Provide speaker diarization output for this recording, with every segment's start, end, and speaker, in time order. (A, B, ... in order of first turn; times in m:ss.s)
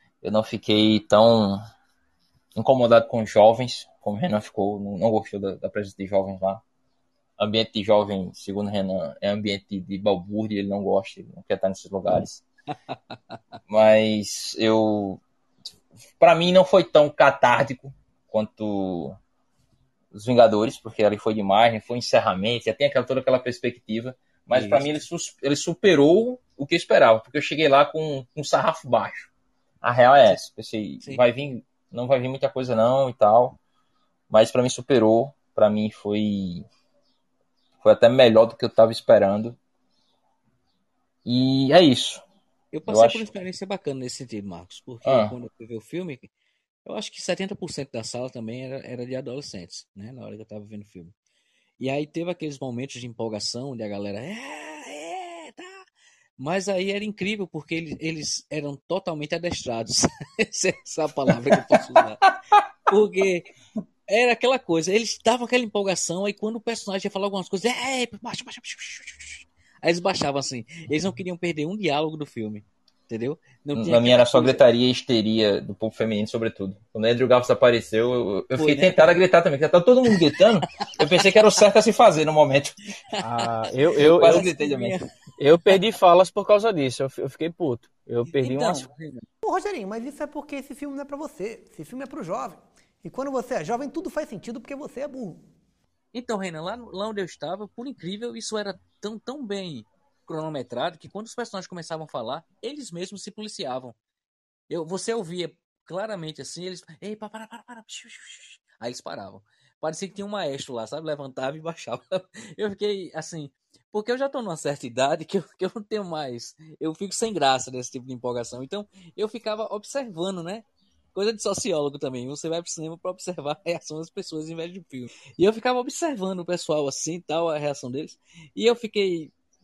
0:00.2-0:01.6 A
0:02.5-0:06.6 A
0:07.4-0:12.4 A
0:12.9-0:13.2 B
0:13.7-0:15.2 A
0:16.2-0:19.2 A
0:20.1-0:29.3 A
0:24.5-0:24.9 B
0:29.8-0:33.6 A
0:34.3-0:36.7 A
0:37.8-0:39.6 A
0:41.2-0:42.2 A
0:42.7-0:46.3 B
0:42.9-0:43.3 A
0:45.0-0:45.3 A
0:46.8-0:51.1 B
0:51.8-0:55.8 B
0:56.4-1:02.2 B
1:02.9-1:03.5 B
1:04.1-1:14.6 B
1:13.7-1:22.8 A
1:18.5-1:19.2 B
1:23.2-1:23.5 B
1:23.2-1:24.4 C
1:24.0-1:25.0 A
1:24.0-1:25.1 B
1:25.4-1:28.9 C
1:28.3-1:29.2 B
1:29.4-1:35.4 D
1:36.1-1:44.0 B
1:44.7-2:09.3 B